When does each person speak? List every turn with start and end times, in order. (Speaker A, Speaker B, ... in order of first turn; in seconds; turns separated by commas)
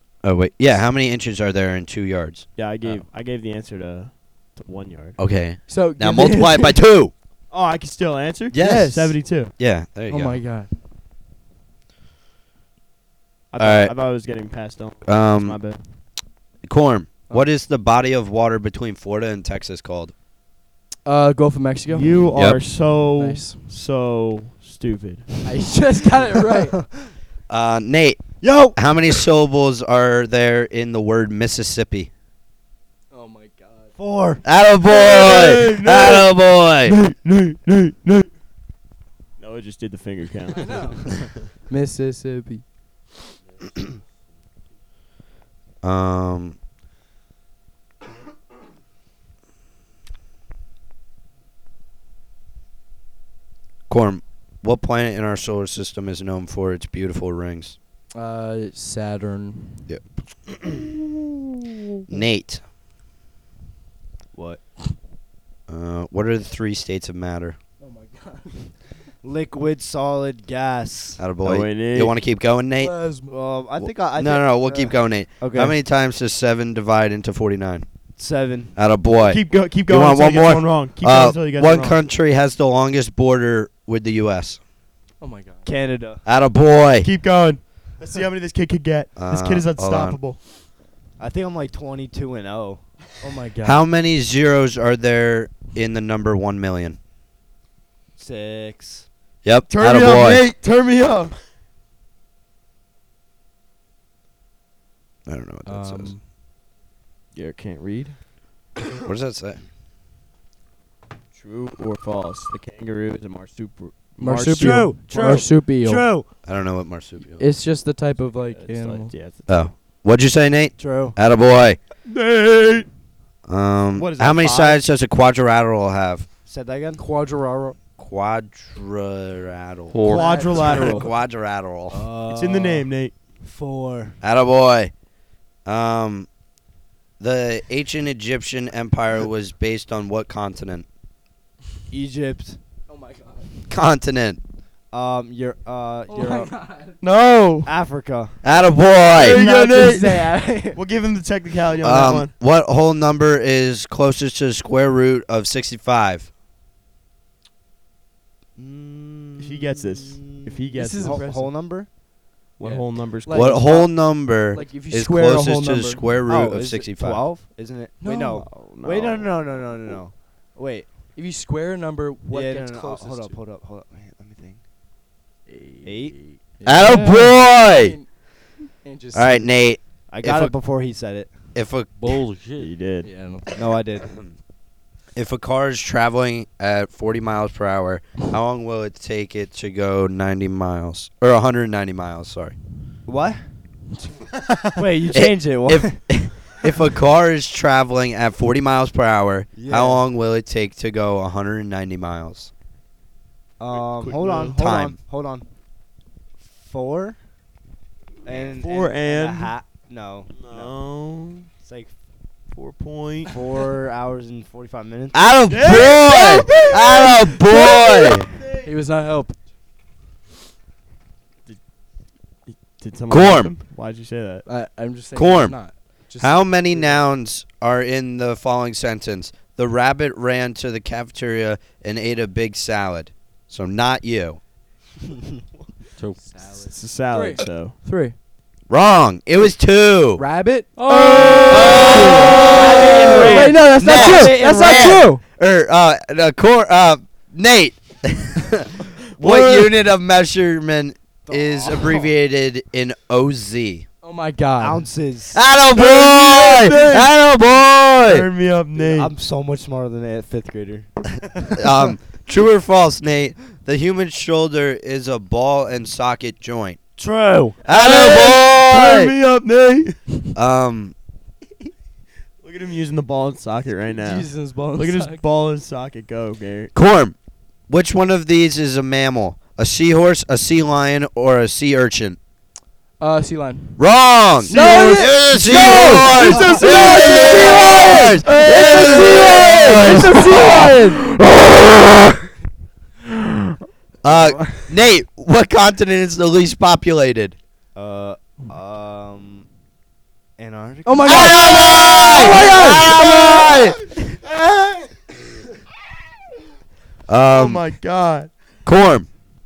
Speaker A: 0.2-2.5, Speaker B: 2.6-5.2, Speaker A: 5.2-7.1, Speaker C: 5.7-6.8, Speaker B: 7.5-9.5, Speaker A: 8.5-10.4, Speaker C: 8.6-9.2, Speaker C: 10.1-10.7, Speaker B: 13.5-15.8, Speaker A: 13.6-13.9, Speaker A: 15.1-15.6, Speaker A: 16.6-20.1, Speaker C: 21.1-22.3, Speaker B: 21.9-25.5, Speaker A: 22.4-22.6, Speaker C: 23.2-23.6, Speaker C: 25.4-26.8, Speaker A: 27.5-32.1, Speaker D: 28.4-28.8, Speaker C: 33.1-34.0, Speaker D: 34.0-34.4, Speaker A: 34.4-37.0, Speaker B: 34.9-38.3, Speaker B: 39.4-41.4, Speaker C: 40.6-42.6, Speaker A: 45.8-46.6, Speaker A: 53.9-57.8, Speaker C: 58.1-59.9, Speaker A: 62.1-62.6, Speaker D: 64.3-64.6, Speaker A: 65.7-67.6, Speaker C: 67.8-68.8, Speaker D: 69.2-71.3, Speaker A: 71.2-72.9, Speaker B: 71.4-72.2, Speaker C: 72.8-73.3, Speaker D: 73.3-75.8, Speaker A: 73.8-77.9, Speaker D: 78.2-78.8, Speaker A: 78.8-84.6, Speaker B: 79.2-82.0, Speaker C: 85.2-85.7, Speaker D: 85.7-86.2, Speaker A: 86.3-87.1, Speaker B: 87.0-90.4, Speaker A: 89.2-90.2, Speaker D: 91.2-92.8, Speaker C: 93.2-93.8, Speaker A: 93.6-97.0, Speaker D: 98.2-99.1, Speaker A: 99.4-100.5, Speaker B: 99.7-101.3, Speaker A: 105.3-106.1, Speaker C: 105.7-106.2, Speaker B: 107.3-108.2, Speaker A: 109.0-109.6, Speaker B: 111.3-115.5, Speaker C: 114.2-116.1, Speaker D: 114.5-116.3, Speaker A: 116.4-117.4, Speaker C: 117.4-119.1, Speaker B: 118.5-119.5, Speaker A: 119.5-121.8, Speaker D: 120.8-121.2, Speaker B: 122.1-122.9, Speaker A: 123.5-126.3, Speaker B: 124.0-124.8, Speaker D: 126.5-127.0, Speaker C: 127.0-127.8, Speaker A: 128.0-132.1, Speaker E: 129.9-130.3, Speaker B: 130.1-131.1, Speaker D: 130.1-131.0, Speaker C: 130.1-130.8, Speaker D: 131.9-132.9, Speaker B: 132.2-133.1, Speaker D: 133.4-134.2, Speaker A: 134.2-134.9, Speaker A: 135.7-136.3, Speaker A: 137.2-140.9, Speaker D: 141.9-142.6, Speaker C: 142.9-143.5, Speaker A: 143.7-144.4, Speaker D: 144.9-146.5, Speaker C: 146.1-147.0, Speaker B: 147.0-147.7, Speaker D: 147.7-148.4, Speaker A: 148.4-149.4, Speaker B: 149.1-152.3, Speaker C: 149.2-150.8, Speaker A: 151.8-156.3, Speaker D: 158.6-161.9, Speaker B: 159.4-161.3, Speaker C: 160.8-161.5, Speaker B: 162.6-163.7, Speaker C: 162.6-166.0, Speaker A: 163.3-167.3, Speaker D: 166.3-170.9, Speaker C: 168.0-168.4, Speaker B: 168.4-169.5, Speaker C: 171.2-173.4, Speaker D: 172.3-174.6, Speaker C: 175.5-178.1, Speaker D: 175.8-176.2, Speaker A: 176.7-178.0, Speaker C: 178.8-179.5, Speaker A: 179.1-180.6, Speaker D: 180.1-181.3, Speaker A: 181.6-182.2, Speaker E: 182.0-182.7, Speaker B: 182.6-183.1, Speaker C: 183.0-183.8, Speaker D: 183.6-184.1, Speaker A: 184.1-184.3, Speaker A: 185.2-192.6, Speaker D: 193.1-193.4, Speaker B: 194.5-194.8, Speaker D: 194.8-196.2, Speaker A: 195.1-202.5, Speaker D: 199.6-200.0, Speaker D: 203.6-205.5, Speaker B: 203.7-204.6, Speaker A: 204.4-205.0, Speaker D: 206.4-207.2, Speaker D: 208.2-210.7, Speaker B: 208.3-209.6, Speaker B: 210.3-211.5, Speaker D: 211.6-211.9, Speaker B: 212.5-213.5, Speaker D: 213.3-215.3, Speaker A: 215.1-218.3, Speaker B: 215.5-218.7, Speaker C: 218.6-219.4, Speaker B: 222.5-224.4, Speaker A: 223.1-223.5, Speaker C: 224.5-226.8, Speaker A: 225.2-225.6, Speaker A: 226.2-234.4, Speaker E: 236.0-236.4, Speaker C: 236.2-238.2, Speaker B: 236.7-237.8, Speaker A: 238.7-240.2, Speaker C: 240.2-242.5, Speaker B: 240.8-241.8, Speaker E: 240.9-241.7, Speaker A: 241.5-242.4, Speaker D: 242.5-245.1, Speaker B: 243.0-243.6, Speaker C: 243.1-245.2, Speaker A: 243.7-253.9, Speaker B: 249.2-249.7, Speaker D: 251.3-252.1, Speaker C: 254.0-254.9, Speaker D: 254.6-255.4, Speaker A: 255.3-258.3, Speaker B: 255.7-257.1, Speaker B: 258.1-259.1, Speaker D: 258.8-261.5, Speaker A: 261.6-266.8, Speaker D: 267.0-267.6, Speaker B: 267.6-270.2, Speaker A: 267.7-269.1, Speaker A: 270.4-270.9, Speaker B: 272.4-276.7, Speaker C: 273.9-275.2, Speaker A: 276.7-277.1, Speaker A: 277.7-282.2, Speaker C: 283.0-283.9, Speaker A: 283.8-292.1, Speaker C: 284.4-291.0, Speaker B: 284.4-290.0, Speaker A: 294.0-297.4, Speaker D: 297.8-299.5, Speaker D: 300.4-301.7, Speaker C: 300.9-301.4, Speaker A: 301.1-303.8, Speaker B: 301.9-304.9, Speaker C: 302.3-302.8, Speaker D: 302.3-302.8, Speaker A: 307.1-307.6, Speaker B: 307.3-308.3, Speaker A: 308.6-309.1